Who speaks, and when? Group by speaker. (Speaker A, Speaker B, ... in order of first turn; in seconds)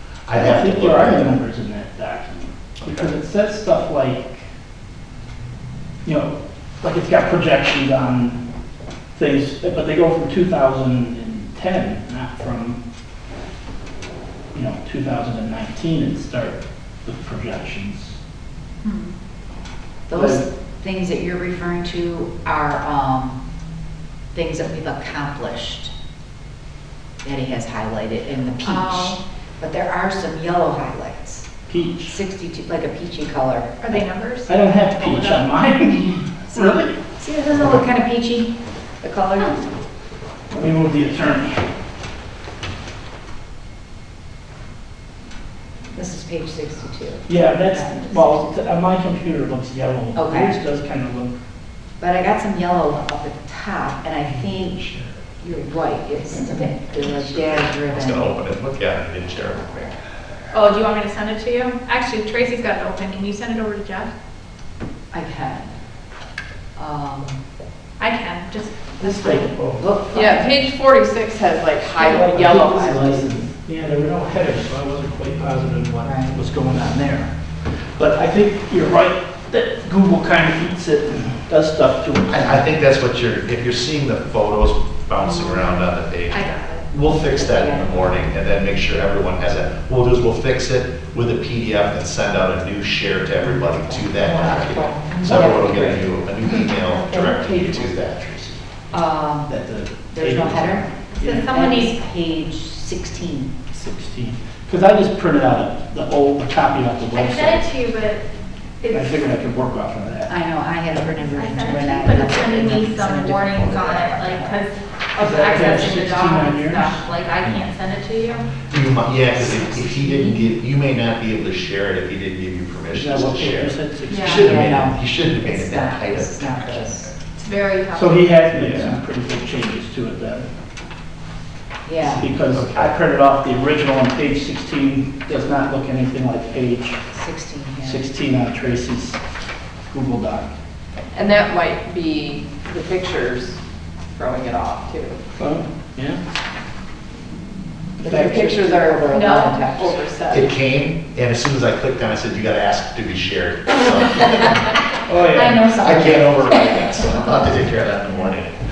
Speaker A: 0.2-1.3, 2.8-3.1, 54.4-55.1, 57.4-60.0, 82.3-98.6, 118.7-127.1, 128.5-128.9, 132.4-132.9, 150.3-154.8, 155.6-158.5
Speaker B: 0.3-4.5, 6.0-8.4, 9.1-12.8, 14.5-18.2, 20.1-20.4, 31.7-32.2, 34.5-37.0, 40.5-41.6, 47.3-51.4, 69.0-69.9, 72.0-82.7, 99.5-101.0, 103.7-107.7, 108.9-110.3, 115.2-117.0, 122.9-124.8, 127.9-130.5, 132.0-137.0, 137.8-139.2, 139.9-140.5, 145.4-146.2, 148.0-148.4, 155.1-155.7
Speaker C: 18.8-19.1, 28.6-29.2, 33.8-35.5, 60.5-64.1, 68.0-69.5, 86.3-86.9, 101.2-101.9, 107.1-109.2, 111.3-118.5, 149.1-149.6
Speaker D: 20.1-23.4, 24.3-25.9, 27.2-31.5, 32.0-33.7, 37.2-39.6, 45.9-48.4, 50.1-50.5, 52.0-54.8, 55.4-58.3, 65.1-65.7, 66.8-67.4, 69.8-70.5, 76.0-76.4, 87.0-88.3, 93.8-96.0, 98.9-99.5, 100.1-103.5, 110.3-114.6, 119.3-120.4, 124.3-127.1, 131.8-132.3, 137.1-138.1, 148.0-150.0, 155.2-157.5
Speaker E: 70.1-73.3, 97.2-97.8, 124.1-124.4, 127.4-128.4, 141.1-143.6, 144.1-145.2, 148.0-150.5